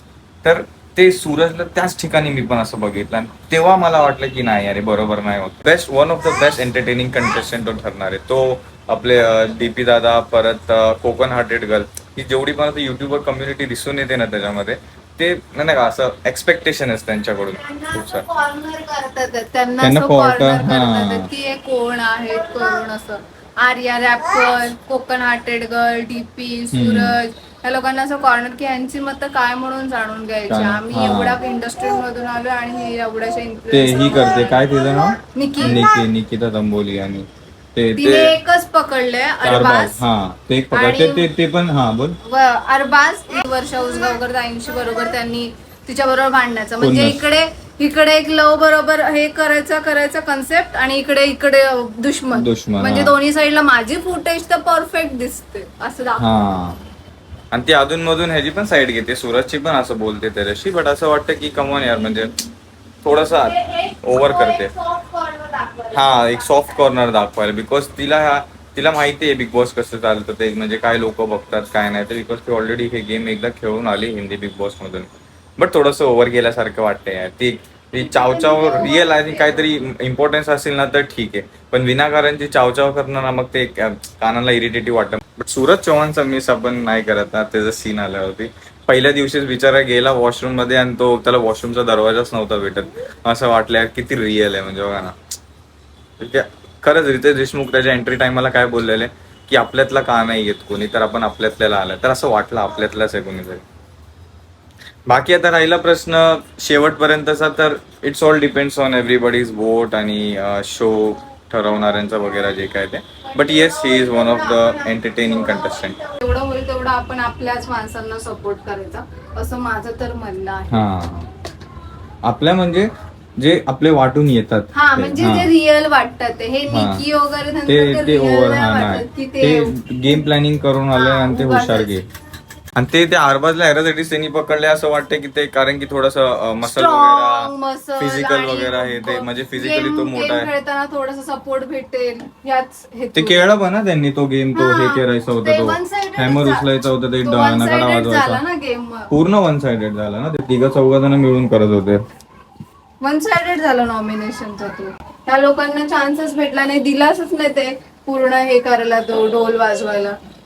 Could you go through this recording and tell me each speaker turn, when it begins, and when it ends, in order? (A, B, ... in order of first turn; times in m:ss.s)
0:00.4-0:18.3 A
0:17.6-0:34.6 B
0:19.8-0:21.3 A
0:26.7-0:27.2 A
0:30.5-0:31.4 A
0:33.7-0:38.4 A
0:35.3-0:35.8 B
0:38.0-0:40.0 B
0:39.4-0:42.2 A
0:40.7-0:41.3 B
0:42.2-0:56.2 B
0:46.8-0:47.2 A
0:52.3-0:53.1 A
0:56.2-0:56.8 A
0:57.5-1:02.3 A
1:03.0-1:04.7 A
1:03.5-1:06.0 B
1:05.9-1:35.2 A
1:18.0-1:19.7 B
1:36.2-1:43.6 A
1:45.1-1:56.0 A
1:53.3-2:00.7 B
2:00.7-2:01.3 A
2:02.2-2:05.5 A
2:04.7-2:10.2 B
2:06.7-2:07.0 A
2:07.7-2:12.1 A
2:10.9-2:11.9 B
2:12.8-2:20.5 A
2:16.6-2:23.5 B
2:23.1-2:28.4 A
2:24.5-2:26.6 B
2:27.2-2:29.1 B
2:29.1-2:32.0 A
2:33.0-2:40.2 B